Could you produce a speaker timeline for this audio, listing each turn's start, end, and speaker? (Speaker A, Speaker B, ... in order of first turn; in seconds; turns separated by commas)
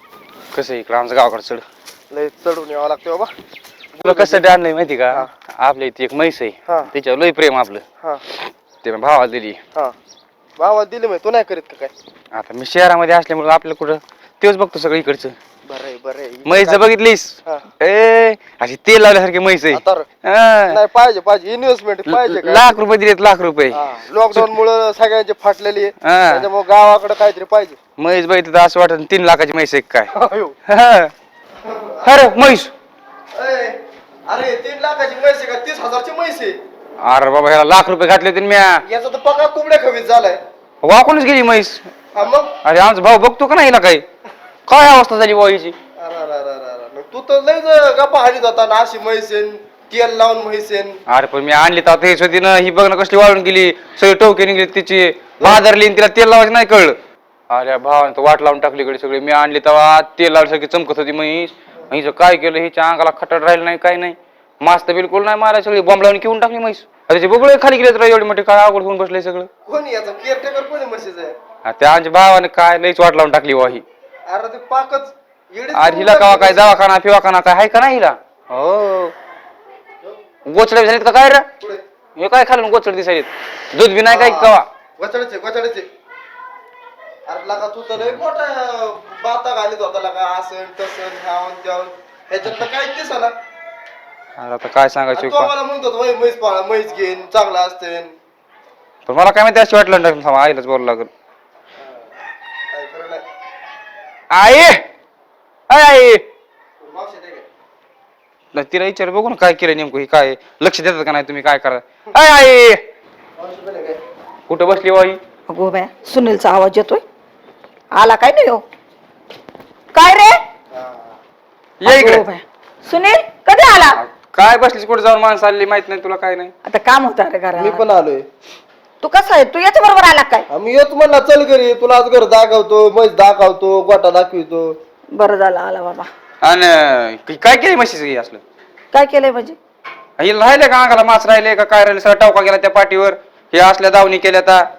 Speaker A: 0.5-1.6, Speaker B: 2.1-3.3, Speaker B: 3.9-4.5, Speaker A: 4.0-7.8, Speaker A: 8.8-9.6, Speaker B: 10.6-11.9, Speaker A: 12.3-15.3, Speaker B: 15.7-16.9, Speaker A: 16.4-20.8, Speaker B: 19.7-20.1, Speaker B: 20.7-22.6, Speaker A: 22.1-24.5, Speaker B: 23.7-27.8, Speaker A: 26.0-26.5, Speaker A: 28.0-30.1, Speaker B: 30.1-30.5, Speaker A: 30.7-31.1, Speaker B: 31.6-32.1, Speaker A: 32.0-32.7, Speaker B: 33.3-36.6, Speaker A: 37.0-38.8, Speaker B: 38.9-40.4, Speaker A: 40.8-41.9, Speaker B: 42.1-42.5, Speaker A: 42.6-44.0, Speaker A: 44.7-45.8, Speaker B: 46.0-51.0, Speaker A: 51.1-57.0, Speaker A: 57.5-69.5, Speaker B: 69.7-71.3, Speaker A: 71.6-73.8, Speaker B: 74.2-76.7, Speaker A: 75.7-79.1, Speaker A: 80.5-81.5, Speaker A: 82.2-84.6, Speaker B: 84.0-85.9, Speaker B: 87.2-93.3, Speaker A: 94.4-95.5, Speaker B: 95.1-98.2, Speaker A: 99.0-101.1, Speaker B: 101.8-102.0, Speaker B: 102.7-103.2, Speaker A: 104.3-104.8, Speaker A: 105.7-106.2, Speaker B: 106.8-107.5, Speaker A: 108.5-112.8, Speaker B: 113.4-114.0, Speaker A: 114.5-115.2, Speaker C: 115.5-117.0, Speaker C: 117.9-118.6, Speaker C: 119.9-120.4, Speaker B: 120.7-121.1, Speaker A: 121.8-122.2, Speaker C: 121.8-124.0, Speaker A: 124.0-126.5, Speaker C: 126.6-127.8, Speaker B: 127.5-128.3, Speaker C: 129.0-130.5, Speaker B: 130.5-134.8, Speaker C: 135.2-136.1, Speaker A: 136.4-138.4, Speaker C: 138.9-139.6, Speaker A: 140.2-144.7